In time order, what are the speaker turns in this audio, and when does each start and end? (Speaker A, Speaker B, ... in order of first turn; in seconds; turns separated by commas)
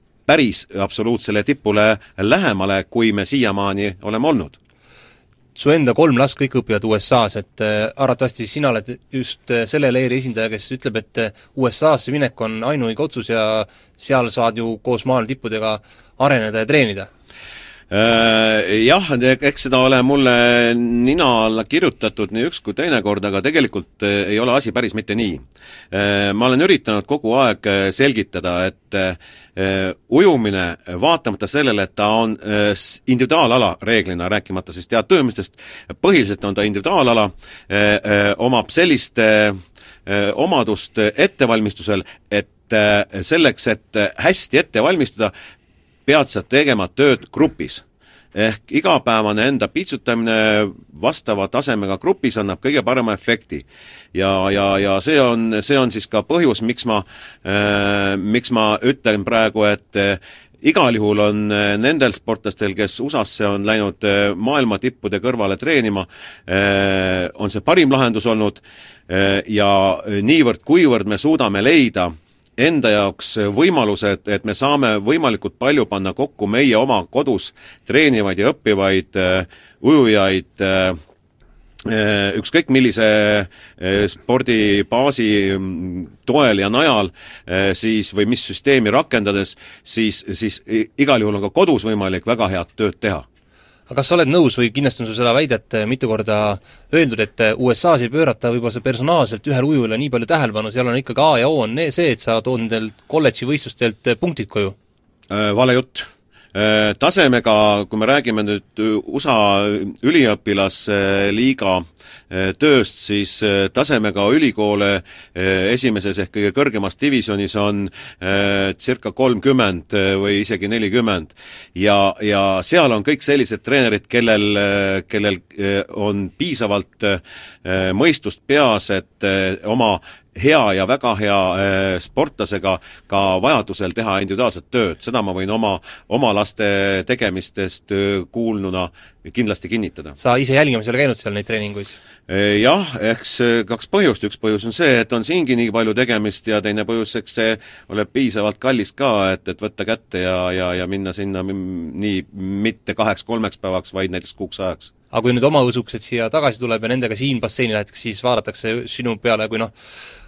Speaker A: 0.3-4.6, Speaker B: 5.5-17.1, Speaker A: 17.9-45.3, Speaker A: 46.1-47.8, Speaker A: 48.4-81.0, Speaker A: 81.8-93.2, Speaker B: 93.9-104.8, Speaker A: 105.3-140.2, Speaker B: 140.2-142.0, Speaker A: 142.3-154.9, Speaker B: 155.1-159.7